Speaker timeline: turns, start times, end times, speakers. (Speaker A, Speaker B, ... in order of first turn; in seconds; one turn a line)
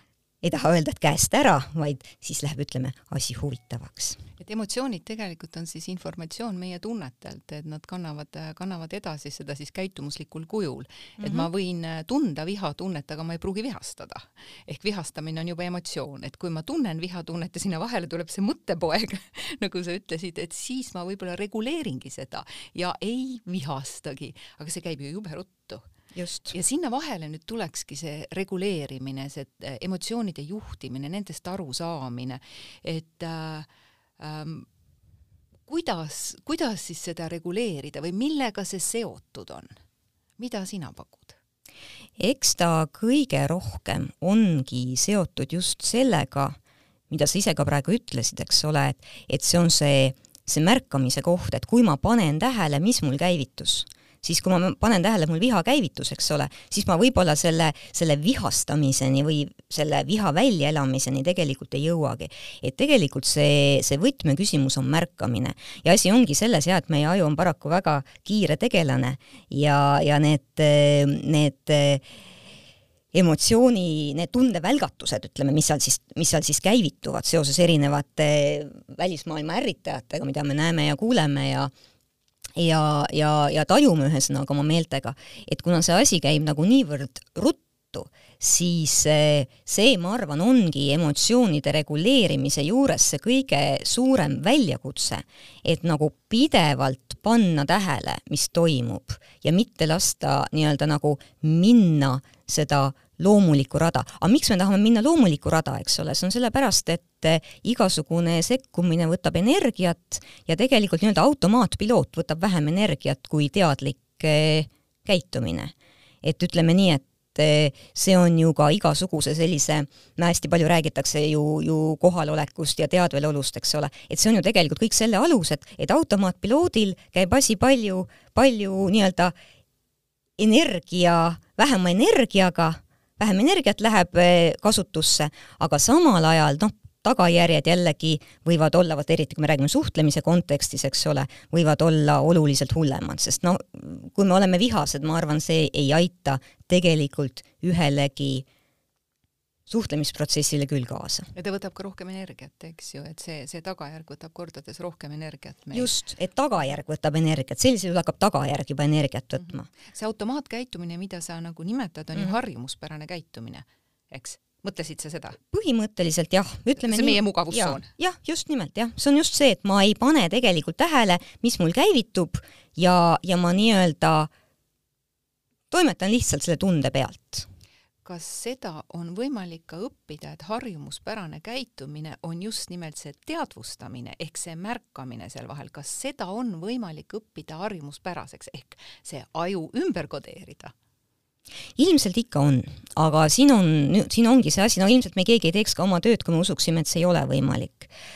Speaker A: 0.4-4.2
Speaker B: 4.4-25.9
Speaker A: 11.2-11.5
Speaker A: 26.1-26.5
Speaker B: 26.5-33.7
Speaker B: 34.2-34.7
Speaker B: 35.7-39.8
Speaker B: 40.4-41.4
Speaker A: 42.2-46.6
Speaker A: 47.1-72.0
Speaker A: 73.1-81.7
Speaker A: 82.5-129.3
Speaker A: 130.4-148.4
Speaker A: 149.7-151.3
Speaker B: 151.3-155.9
Speaker A: 155.7-159.7
Speaker B: 159.4-165.4
Speaker A: 165.5-174.3
Speaker B: 166.8-167.9
Speaker A: 175.7-177.5
Speaker B: 178.0-190.7
Speaker A: 191.8-197.9